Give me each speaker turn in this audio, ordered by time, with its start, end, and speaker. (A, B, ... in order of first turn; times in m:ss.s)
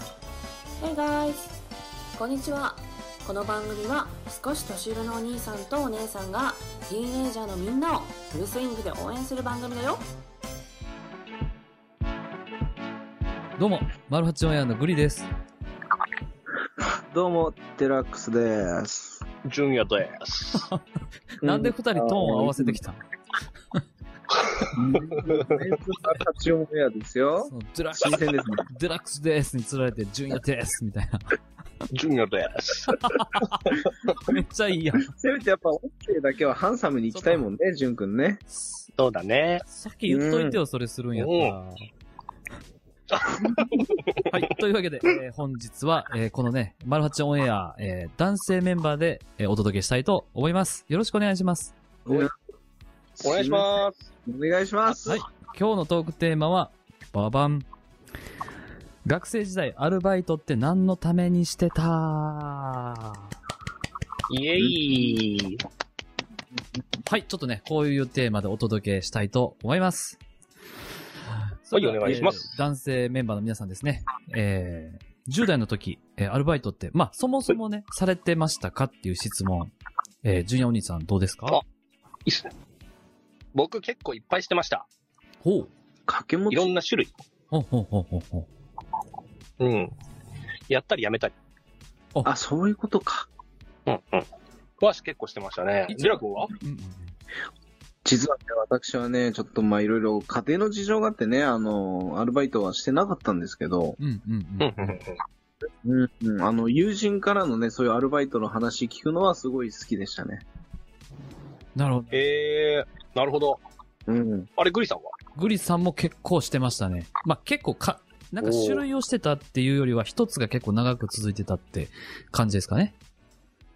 0:00.8-0:01.6 A
0:02.2-0:10.0 A
0:13.6-0:15.3 B
0:17.1-0:19.2 C
0:19.4-0:20.7 D
0:21.4-0:23.0 B
0:21.4-0:22.8 C
0:24.7-0:28.7 C
0:27.4-0:31.4 B
0:31.9-0:33.8 D
0:32.9-0:35.1 B
0:35.0-0:38.4 C
0:37.1-0:37.5 B
0:38.5-0:38.9 B
0:39.0-0:39.6 D
0:39.6-0:41.8 B
0:40.1-0:40.6 C
0:41.2-0:41.6 D
0:43.1-0:44.3 D
0:44.3-0:51.7 B
0:53.2-0:55.2 C
0:53.2-0:54.1 D
0:55.1-0:57.7 B
0:59.0-1:03.2 B
1:04.3-1:05.6 D
1:07.0-1:10.2 B
1:11.6-1:21.6 B
1:11.7-1:12.6 D
1:22.2-1:22.5 D
1:23.5-1:24.8 D
1:25.4-1:25.7 B
1:26.1-1:26.7 C
1:26.5-1:27.1 D
1:27.5-1:28.5 B
1:29.6-1:29.9 D
1:30.7-1:31.3 D
1:32.2-1:33.3 C
1:33.9-1:34.3 D
1:34.8-1:36.5 D
1:35.9-1:37.1 B
1:38.0-1:44.0 C
1:44.0-1:45.0 B
1:44.6-1:45.2 D
1:45.8-1:50.4 C
1:51.7-1:52.2 B
1:52.1-1:53.6 D
1:54.1-1:54.5 C
1:54.6-1:55.1 D
1:55.3-2:02.9 B
1:58.4-1:58.8 D